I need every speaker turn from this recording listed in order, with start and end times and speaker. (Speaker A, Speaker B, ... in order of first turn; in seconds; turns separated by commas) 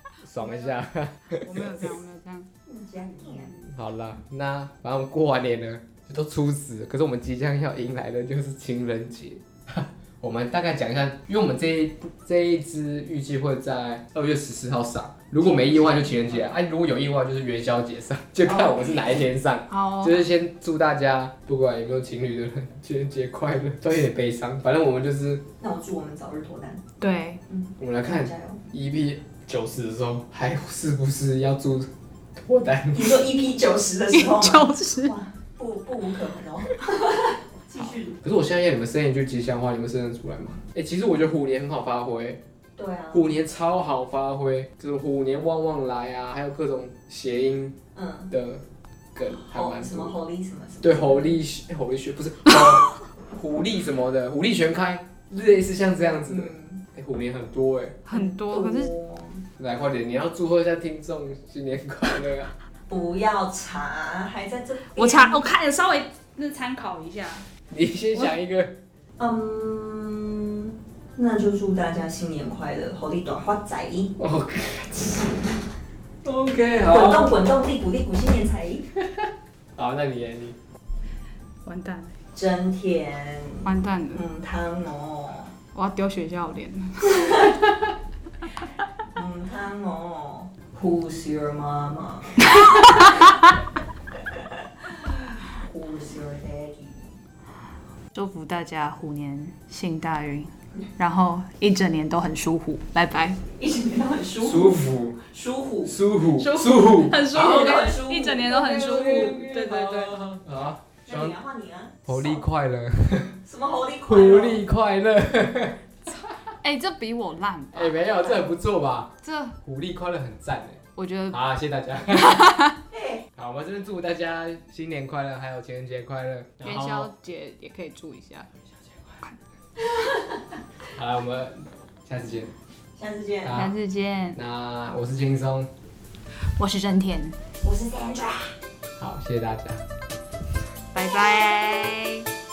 Speaker A: 0.2-1.8, Speaker B: 0.4-0.7, Speaker B: 1.3-2.5, Speaker C: 2.6-3.6, Speaker A: 3.6-25.5, Speaker C: 18.5-19.0, Speaker B: 19.7-20.2, Speaker C: 25.6-26.8, Speaker B: 27.0-27.4, Speaker C: 27.5-28.6, Speaker A: 27.8-33.2, Speaker C: 32.9-38.2, Speaker B: 34.1-35.1, Speaker A: 38.2-42.4, Speaker C: 42.8-43.3, Speaker A: 43.1-47.8, Speaker C: 47.9-48.3, Speaker A: 48.3-48.6, Speaker A: 49.1-50.1, Speaker C: 49.4-51.4, Speaker A: 50.8-58.0, Speaker C: 56.2-56.8, Speaker B: 58.0-58.9, Speaker C: 58.1-59.4, Speaker A: 59.6-62.5, Speaker C: 62.9-65.5, Speaker B: 64.8-67.5, Speaker A: 67.7-68.8, Speaker C: 69.2-74.2, Speaker A: 74.2-75.4, Speaker A: 76.2-77.3, Speaker C: 76.8-78.9, Speaker A: 79.8-80.6, Speaker B: 81.6-82.1, Speaker C: 82.3-85.5, Speaker B: 83.6-84.2, Speaker B: 85.7-87.5, Speaker C: 87.0-87.6, Speaker C: 89.1-92.6, Speaker B: 92.6-93.0, Speaker C: 95.4-97.1, Speaker B: 98.1-103.4, Speaker C: 103.5-106.0, Speaker A: 104.4-105.2, Speaker A: 105.8-107.7, Speaker B: 106.4-110.3, Speaker C: 107.2-109.7, Speaker A: 108.8-111.3, Speaker C: 111.0-112.4, Speaker A: 112.0-113.4, Speaker C: 113.4-114.6, Speaker A: 114.1-116.1, Speaker B: 116.6-118.4, Speaker A: 117.7-122.6, Speaker B: 119.2-119.6, Speaker B: 121.0-121.4, Speaker B: 122.3-122.7, Speaker C: 122.9-123.2, Speaker A: 123.4-127.1, Speaker B: 126.6-128.5, Speaker C: 129.9-130.3, Speaker A: 130.9-132.5, Speaker C: 132.9-133.6, Speaker A: 133.4-133.7, Speaker B: 133.5-134.4, Speaker A: 134.3-135.7, Speaker B: 136.6-137.3, Speaker C: 137.6-138.5, Speaker A: 139.0-139.8, Speaker B: 140.9-142.3